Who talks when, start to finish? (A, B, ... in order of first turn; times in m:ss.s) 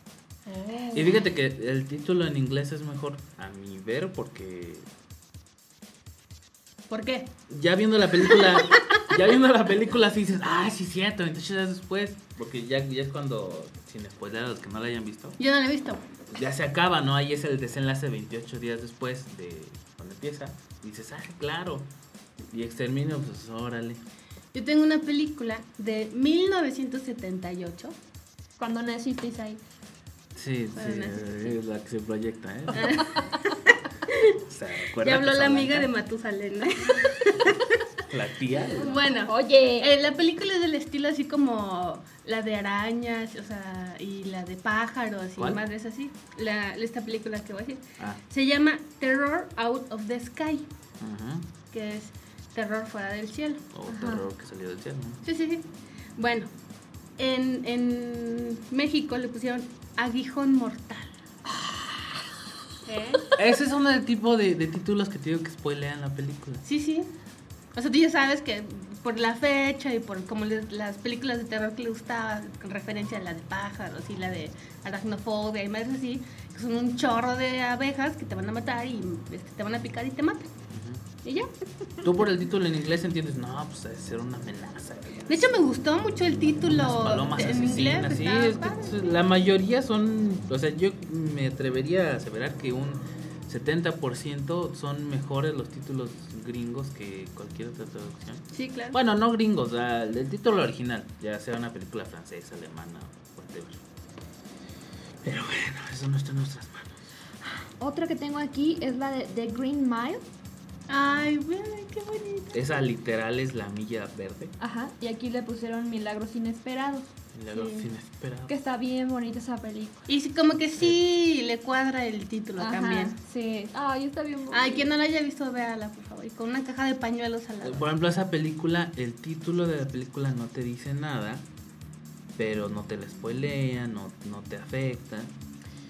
0:00.5-0:01.2 A
0:00.9-0:04.9 B
0:06.9-0:07.3 A
0:07.5-0:15.4 B
0:08.2-0:09.1 A
0:15.4-0:16.0 A
0:16.3-0:21.9 B
0:22.5-0:24.0 B
0:24.5-0:28.0 A
0:28.6-0:29.6 C
0:30.4-0:33.0 B
0:30.8-0:31.6 A
0:32.7-0:34.4 A
0:34.4-0:35.9 B
0:35.0-0:37.8 A
0:38.1-0:39.0 B
0:38.6-0:50.7 A
0:39.2-0:39.9 C
0:45.4-0:45.6 B
0:51.0-0:51.5 B
0:51.7-0:53.6 A
0:53.7-0:55.2 B
0:53.9-0:54.3 C
0:55.2-0:55.6 A
0:56.2-0:56.5 A
0:57.2-1:01.1 A
1:02.8-1:03.3 A
1:03.4-1:06.6 B
1:06.6-1:07.1 A
1:07.7-1:20.5 A
1:20.7-1:21.0 B
1:21.2-1:21.5 A
1:22.0-1:25.3 B
1:25.3-1:29.2 A
1:26.7-1:43.8 B
1:38.5-1:39.0 A
1:45.2-1:47.0 B
1:47.8-1:50.2 C
1:50.9-1:52.7 A
1:52.5-1:54.5 B
1:54.6-1:57.7 C
1:57.3-1:58.5 B
1:58.5-2:00.1 C
2:00.1-2:03.1 A
2:02.6-2:04.9 C
2:04.5-2:07.9 A
2:07.6-2:11.4 B
2:12.4-2:15.3 B